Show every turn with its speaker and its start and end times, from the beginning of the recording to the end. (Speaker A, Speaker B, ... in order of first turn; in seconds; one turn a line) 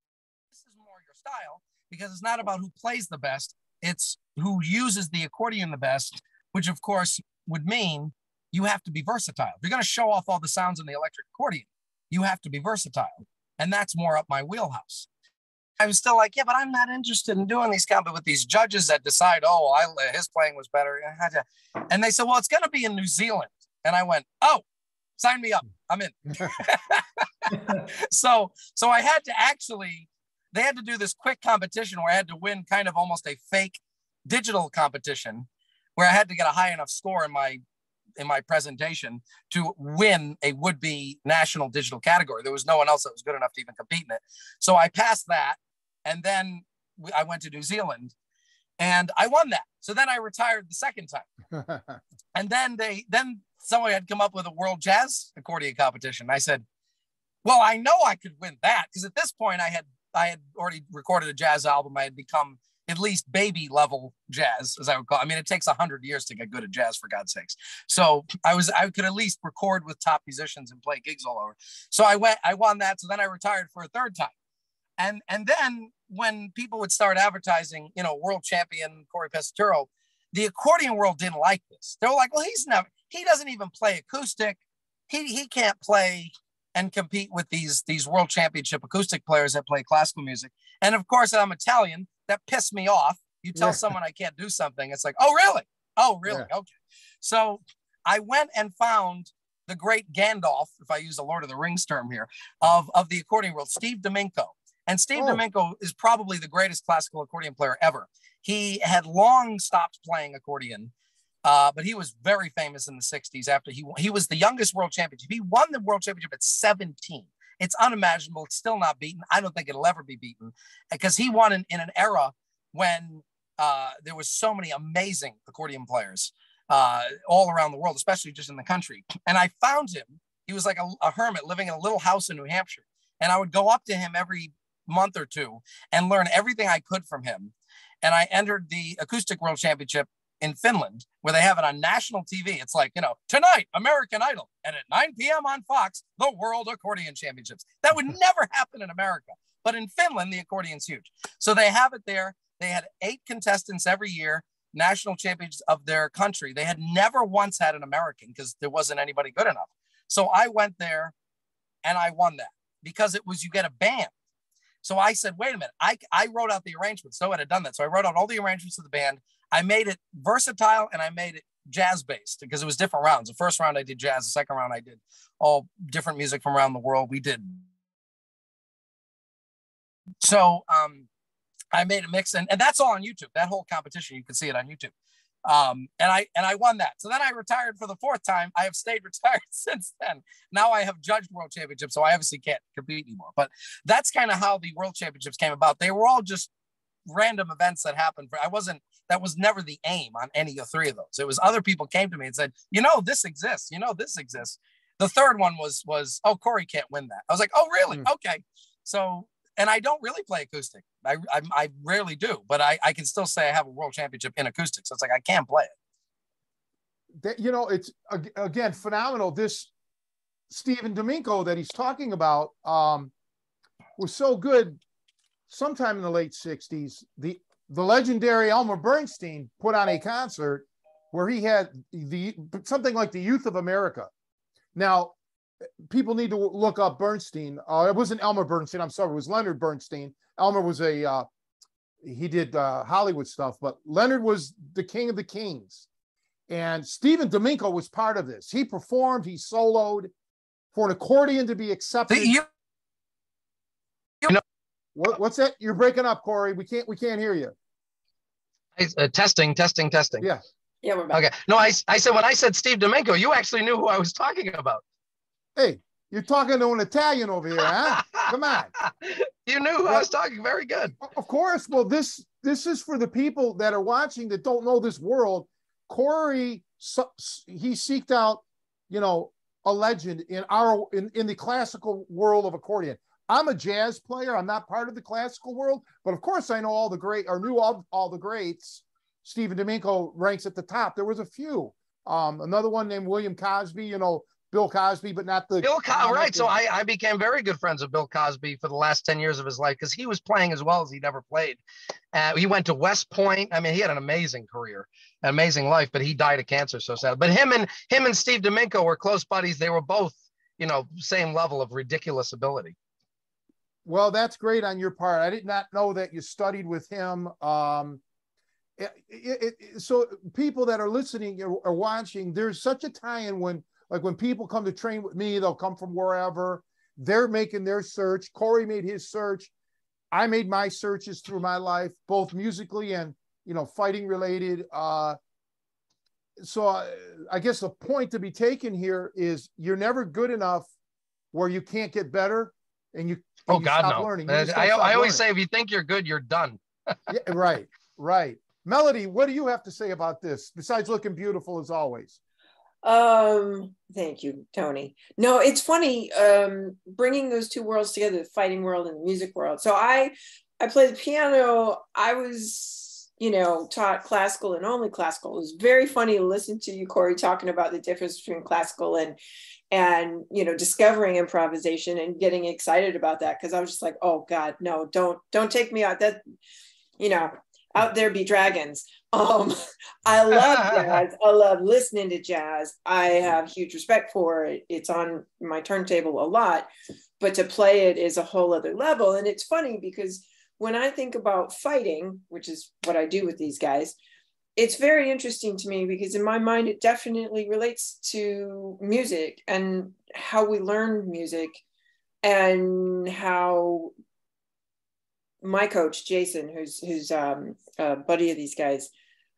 Speaker A: 0.5-15.1
Speaker A: 15.8-24.6
Speaker A: 25.2-37.6
Speaker A: 38.2-48.1
Speaker A: 48.8-51.3
Speaker A: 52.4-56.6
Speaker A: 57.5-74.3
Speaker A: 75.0-110.9
Speaker B: 105.2-105.4
Speaker A: 111.5-161.1
Speaker A: 161.8-164.1
Speaker A: 164.8-177.6
Speaker A: 180.2-181.1
Speaker A: 181.7-184.9
Speaker A: 185.4-196.5
Speaker A: 197.1-215.7
Speaker B: 217.2-219.7
Speaker B: 220.5-223.1
Speaker B: 224.0-224.8
Speaker B: 225.5-234.1
Speaker B: 234.8-235.2
Speaker B: 235.8-241.3
Speaker B: 242.0-245.8
Speaker B: 246.5-250.1
Speaker B: 250.7-252.4
Speaker A: 252.1-252.5
Speaker B: 254.9-257.5
Speaker A: 258.8-260.3
Speaker C: 260.8-261.2
Speaker A: 261.1-264.8
Speaker B: 265.6-268.7
Speaker A: 267.9-268.3
Speaker A: 268.8-271.0
Speaker B: 271.0-296.5
Speaker A: 295.6-301.6
Speaker A: 302.1-312.8
Speaker B: 313.9-318.0
Speaker B: 318.8-329.5
Speaker B: 330.1-335.2
Speaker B: 336.4-340.7
Speaker B: 341.3-345.2
Speaker A: 343.5-347.0
Speaker B: 347.1-352.2
Speaker C: 352.8-369.2
Speaker C: 369.7-376.2
Speaker C: 377.0-386.7
Speaker A: 380.4-381.0
Speaker C: 387.2-394.0
Speaker C: 394.6-401.6
Speaker C: 402.2-403.9
Speaker C: 405.4-408.9